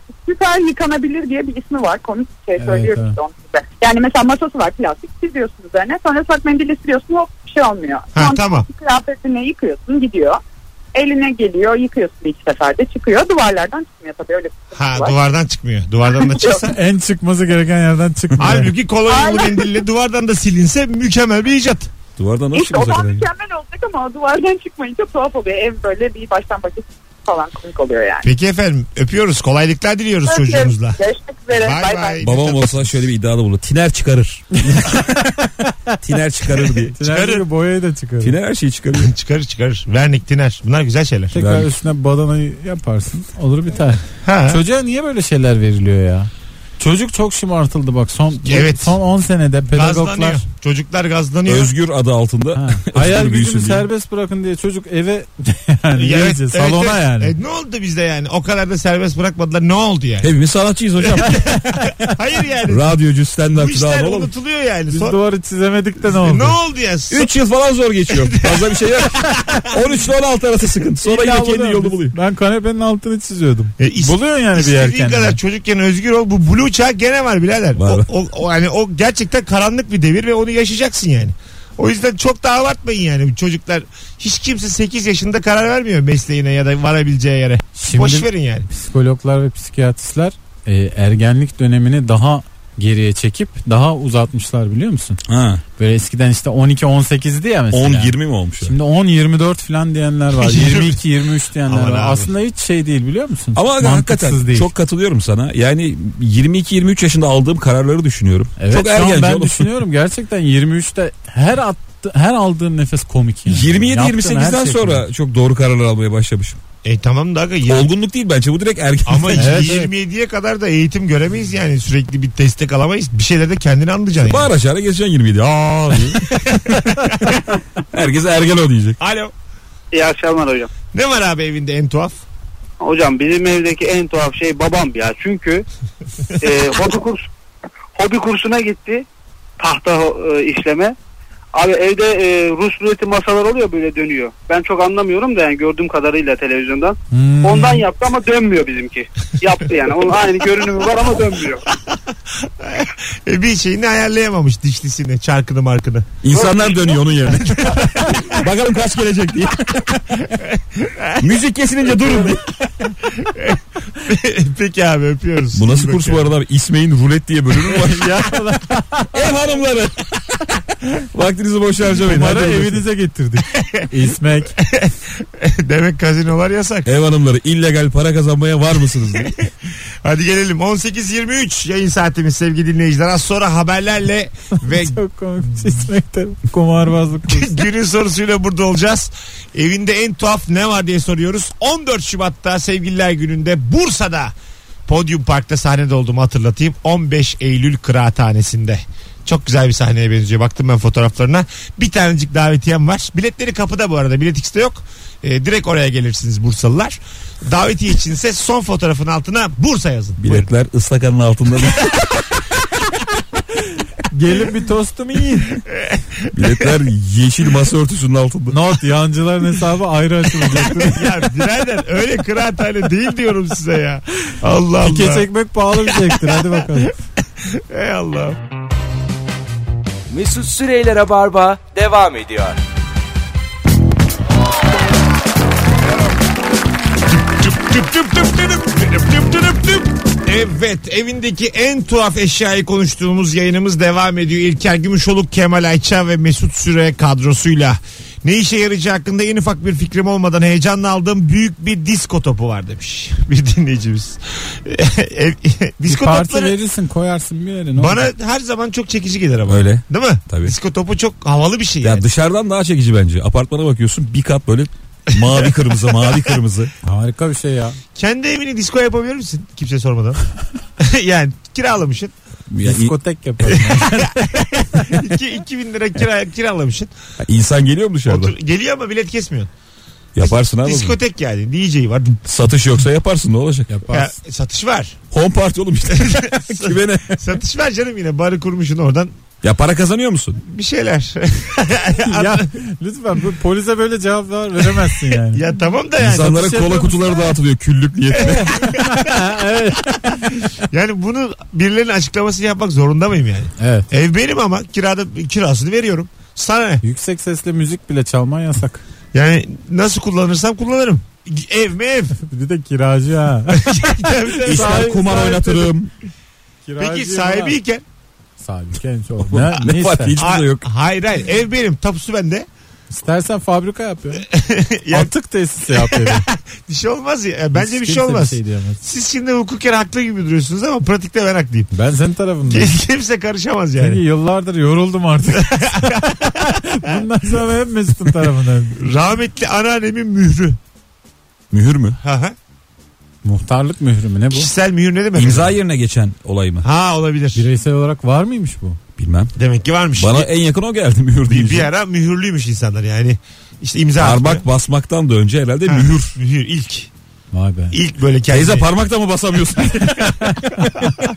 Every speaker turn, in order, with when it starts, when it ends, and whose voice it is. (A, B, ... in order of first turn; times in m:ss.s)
0:00.2-0:10.4 A
0:02.6-0:03.2 B
0:08.2-0:08.7 C
0:10.9-0:15.1 A
0:14.8-0:16.8 C
0:16.1-0:16.7 A
0:16.7-0:18.7 B
0:18.4-0:21.9 C
0:19.1-0:19.8 A
0:22.2-0:23.3 D
0:22.5-0:28.3 A
0:28.2-0:31.0 C
0:30.3-0:32.2 A
0:31.5-0:33.0 C
0:32.2-0:35.2 D
0:34.7-0:35.0 B
0:36.0-0:37.0 D
0:36.9-0:38.3 B
0:37.0-0:37.4 C
0:38.2-0:39.1 D
0:38.9-0:41.4 C
0:41.3-0:50.4 B
0:41.4-0:41.7 D
0:44.2-0:44.6 C
0:48.4-0:49.0 C
0:49.7-0:51.7 C
0:51.5-0:53.9 D
0:52.6-0:57.4 B
0:56.0-1:00.3 C
1:00.2-1:01.5 D
1:01.0-1:02.9 C
1:02.7-1:04.3 D
1:03.6-1:05.2 C
1:04.9-1:06.6 B
1:06.0-1:07.3 C
1:07.1-1:12.2 D
1:08.1-1:09.6 C
1:11.0-1:15.4 B
1:13.8-1:28.7 C
1:17.8-1:18.1 D
1:27.8-1:35.2 B
1:35.3-1:35.6 D
1:35.8-1:44.7 B
1:37.7-1:38.8 D
1:40.4-1:41.0 C
1:41.6-1:42.3 C
1:43.6-1:49.8 D
1:48.6-1:55.1 B
1:53.5-1:56.6 D
1:56.8-1:57.9 C
1:57.7-1:59.7 D
1:59.1-2:04.5 C
1:59.4-1:59.9 B
2:04.2-2:09.0 D
2:06.1-2:07.4 C
2:09.0-2:09.3 C
2:09.9-2:10.7 E
2:10.9-2:12.2 C
2:12.8-2:15.7 E
2:16.4-2:17.3 E
2:18.0-2:19.1 E
2:19.6-2:21.0 E
2:21.5-2:31.6 E
2:27.1-2:27.8 B
2:31.9-2:38.5 C
2:36.2-2:40.2 D
2:40.3-2:41.3 C
2:41.2-2:42.6 D
2:42.0-2:42.3 C
2:43.2-2:46.3 C
2:45.5-2:48.3 D
2:47.7-2:49.3 B
2:49.1-2:50.1 D
2:50.9-2:52.8 D
2:51.9-2:54.6 B
2:53.5-2:53.9 C
2:54.6-2:56.9 C
2:56.9-2:59.4 D
2:59.0-2:59.4 C
3:00.0-3:05.0 C
3:04.6-3:07.6 B
3:07.3-3:14.4 C
3:14.9-3:30.5 C
3:30.2-3:32.1 D
3:34.1-3:35.6 B
3:35.7-3:36.7 C
3:36.3-3:38.6 D
3:38.5-3:41.2 B
3:40.6-3:45.3 C
3:44.8-3:47.0 B
3:45.9-3:46.8 C
3:47.4-3:48.4 C
3:50.1-3:52.6 F
3:57.2-4:16.6 C
4:15.9-4:18.1 B
4:17.8-4:22.1 C
4:19.5-4:20.5 D
4:21.8-4:26.7 D
4:25.1-4:26.3 C
4:26.8-4:27.8 B
4:28.0-4:30.2 C
4:30.8-4:32.1 C
4:32.5-4:33.0 D
4:32.6-4:34.9 B
4:33.5-4:36.9 C
4:37.2-4:38.3 D
4:38.1-4:39.5 C
4:40.2-4:41.0 D
4:40.2-4:42.2 C
4:42.2-4:43.7 D
4:43.7-4:44.2 B
4:43.9-4:45.0 C
4:45.1-4:47.2 D
4:45.9-4:49.1 C
4:49.4-4:50.4 D
4:50.4-4:52.5 C
4:52.0-4:55.4 B
4:55.1-4:56.5 C
4:56.0-4:58.6 D
4:56.1-4:57.3 B
4:58.2-4:59.0 C
4:58.2-5:00.4 B
5:00.6-5:06.8 C
5:03.6-5:03.9 B
5:06.8-5:08.8 B
5:09.1-5:12.2 C
5:12.2-5:15.7 B
5:13.5-5:15.3 C
5:14.5-5:15.9 D
5:16.7-5:17.6 B
5:16.8-5:17.8 C
5:18.4-5:20.2 B
5:19.2-5:20.7 D
5:20.2-5:22.5 C
5:22.9-5:24.3 B
5:24.2-5:25.1 C
5:24.9-5:26.3 B
5:25.7-5:31.7 C
5:27.6-5:28.8 B
5:31.7-5:32.8 B
5:32.5-5:34.0 C
5:33.8-5:38.8 B
5:35.3-5:37.0 C
5:38.8-5:40.6 C
5:41.5-5:42.0 D
5:42.0-5:42.4 C
5:43.2-5:44.5 B
5:44.3-5:45.6 C
5:45.2-5:46.7 D
5:46.6-5:47.5 C
5:47.4-5:48.8 B
5:49.0-5:49.3 D
5:49.4-5:50.3 C
5:50.0-5:51.7 D
5:51.3-5:54.4 C
5:54.0-5:56.2 D
5:55.7-5:56.9 C
5:57.3-5:57.8 B
5:57.7-5:58.7 C
5:58.3-6:00.5 D
6:00.0-6:00.7 B